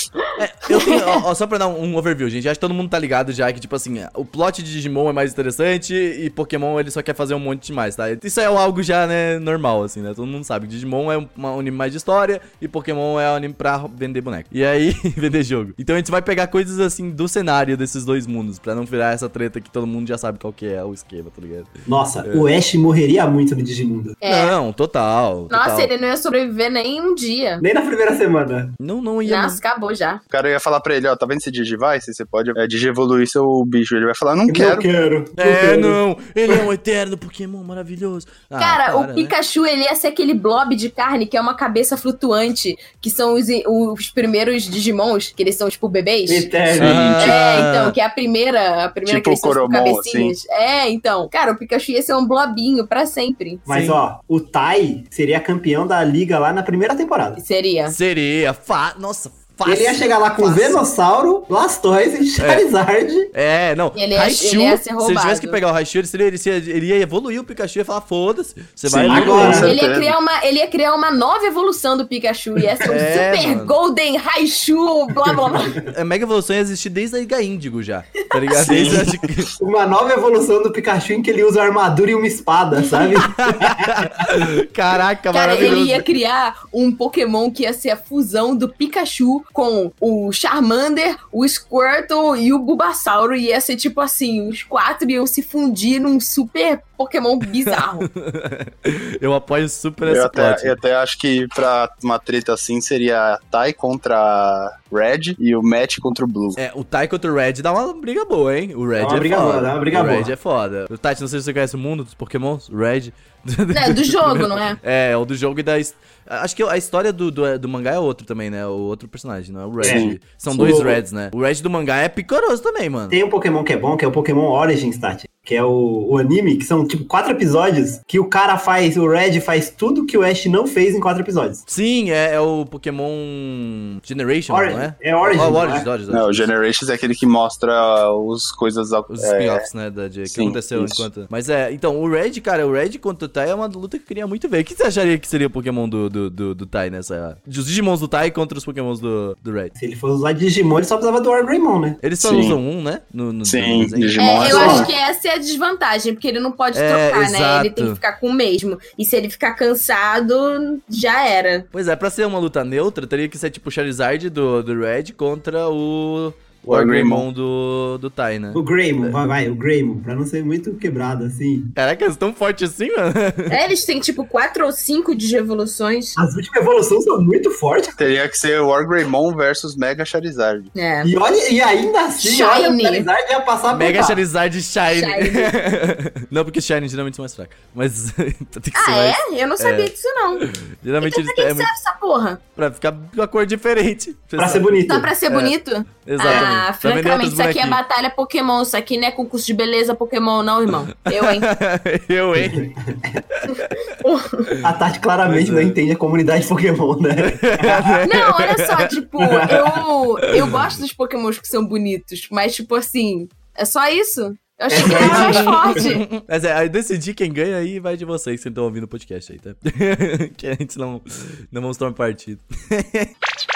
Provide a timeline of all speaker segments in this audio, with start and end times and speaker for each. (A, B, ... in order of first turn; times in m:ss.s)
0:00.4-0:21.7 A
0:00.7-0:01.2 B
0:21.9-0:24.2 C
0:22.2-0:22.5 A
0:24.2-0:24.6 B
0:24.2-0:25.9 A
0:25.5-0:27.6 B
0:27.6-0:28.7 C
0:28.8-0:29.6 A
0:29.2-0:30.2 B
0:30.3-0:34.9 D
0:34.4-0:36.6 C
0:35.4-0:39.3 A
0:38.6-0:46.5 B
0:46.3-0:47.1 C
0:46.7-0:47.4 D
0:46.8-0:48.0 A
0:47.2-0:53.7 B
0:49.0-0:50.3 D
0:53.7-0:57.4 C
0:53.7-0:54.0 A
0:57.4-0:58.0 B
0:57.9-1:00.8 A
0:59.6-1:03.3 C
1:02.4-1:02.6 A
1:03.3-1:09.7 A
1:03.9-1:05.6 B
1:08.8-1:10.1 D
1:09.1-1:09.7 C
1:09.4-1:15.8 B
1:12.8-1:13.7 A
1:15.2-1:15.8 C
1:15.8-1:19.5 A
1:18.5-1:19.2 D
1:19.6-1:24.1 C
1:23.2-1:26.0 A
1:25.3-1:38.1 B
1:37.6-1:40.8 A
1:40.0-1:46.6 D
1:46.6-2:03.2 A
1:49.0-1:50.3 C
1:53.7-1:54.8 B
1:59.8-2:01.0 C
1:59.8-2:00.2 D
2:03.1-2:11.6 C
2:11.7-2:16.5 A
2:14.5-2:15.9 C
2:16.1-2:19.6 D
2:19.1-2:29.7 A
2:20.3-2:21.0 D
2:29.8-2:32.0 C
2:32.0-2:34.8 A
2:32.2-2:32.6 D
2:33.4-2:34.9 D
2:34.2-2:41.6 B
2:34.4-2:34.9 C
2:36.7-2:38.0 A
2:41.7-2:48.6 A
2:46.6-2:47.2 D
2:48.5-2:51.7 C
2:51.8-2:53.6 A
2:53.5-2:56.2 B
2:56.2-2:58.0 C
2:58.0-3:00.7 D
3:00.7-3:01.1 B
3:01.0-3:04.2 C
3:02.2-3:03.1 B
3:03.7-3:11.7 A
3:04.9-3:05.5 B
3:08.7-3:10.4 B
3:11.0-3:12.4 B
3:12.5-3:17.8 A
3:14.4-3:15.1 C
3:14.9-3:21.5 B
3:16.2-3:16.5 C
3:21.0-3:22.8 A
3:22.4-3:23.2 C
3:23.3-3:23.9 A
3:23.5-3:24.5 B
3:24.6-3:28.0 C
3:25.2-3:25.8 A
3:27.2-3:28.9 A
3:28.0-3:36.0 B
3:29.2-3:29.8 C
3:30.2-3:30.6 A
3:34.7-3:35.9 C
3:34.8-3:43.1 A